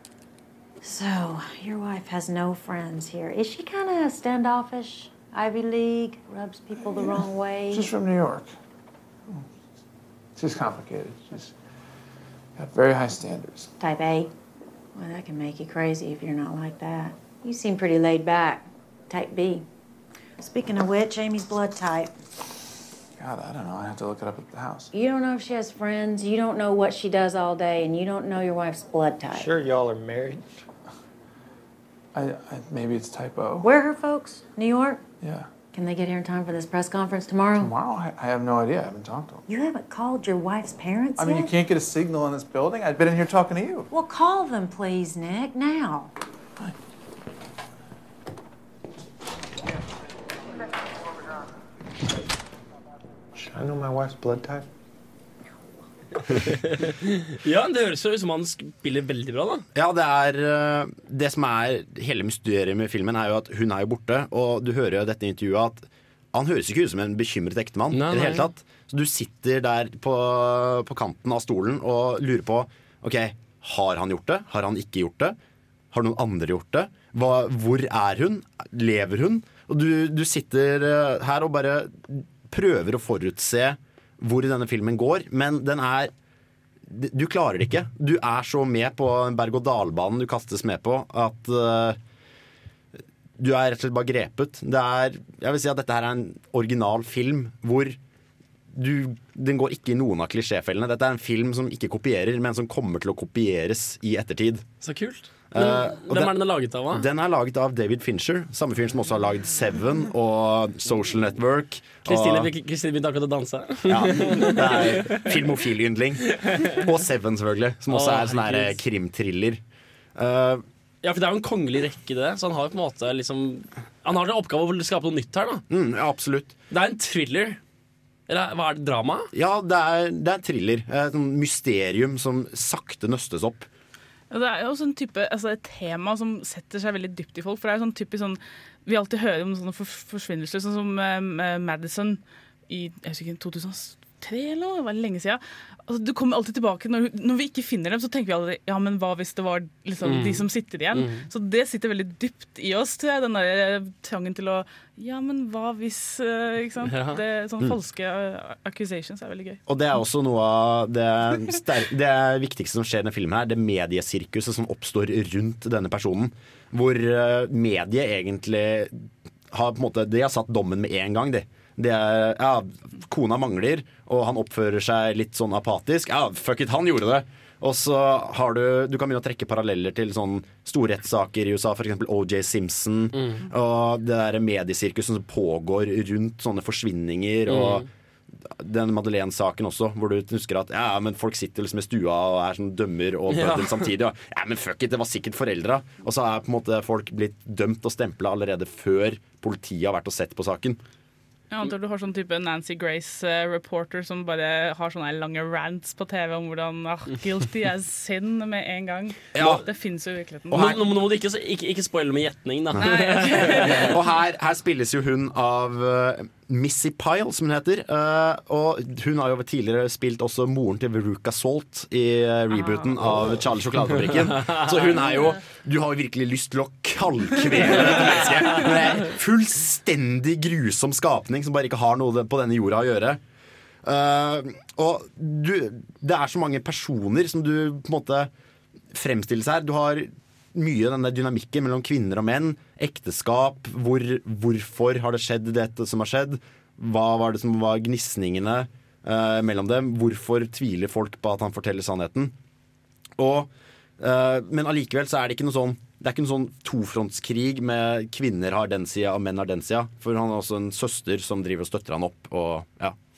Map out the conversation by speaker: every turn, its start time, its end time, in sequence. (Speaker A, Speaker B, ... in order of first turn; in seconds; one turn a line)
Speaker A: 0.8-7.9
Speaker B: 6.8-8.5
Speaker B: 10.3-11.5
Speaker B: 12.6-13.7
Speaker A: 13.8-14.3
Speaker A: 14.9-19.7
Speaker A: 20.4-22.1
Speaker B: 23.2-24.9
Speaker A: 24.9-29.6
Speaker B: 32.1-33.7
Speaker A: 33.6-35.0
Speaker B: 35.2-35.5
Speaker A: 35.7-37.7
Speaker B: 37.5-39.5
Speaker A: 39.5-41.5
Speaker B: 41.2-43.9
Speaker A: 43.9-46.1
Speaker C: 56.8-59.6
Speaker D: 59.7-75.3
Speaker C: 67.9-68.5
Speaker D: 75.9-86.1
Speaker D: 86.9-92.0
Speaker D: 93.4-98.0
Speaker D: 98.7-104.6
Speaker C: 104.8-107.1
Speaker D: 105.5-106.3
Speaker D: 106.9-112.5
Speaker C: 112.0-115.3
Speaker D: 113.9-119.6
Speaker C: 116.4-116.8
Speaker C: 117.9-118.8
Speaker D: 120.1-120.6
Speaker C: 121.0-125.6
Speaker D: 125.7-126.5
Speaker C: 126.7-127.6
Speaker C: 128.3-129.3
Speaker D: 129.3-133.7
Speaker E: 134.3-159.6
Speaker C: 150.0-151.3
Speaker C: 156.9-157.2
Speaker D: 159.7-187.9
Speaker C: 183.1-183.4
Speaker C: 187.5-187.9
Speaker D: 188.4-200.8
Speaker C: 193.3-193.9
Speaker E: 201.5-210.7
Speaker D: 209.3-209.6
Speaker C: 209.3-209.6
Speaker D: 210.5-210.9
Speaker C: 210.5-213.9
Speaker E: 212.8-214.0
Speaker D: 213.6-233.2
Speaker E: 222.5-222.8
Speaker C: 224.0-224.5
Speaker C: 227.8-228.6
Speaker D: 233.8-238.3
Speaker D: 238.9-252.3
Speaker D: 253.2-262.9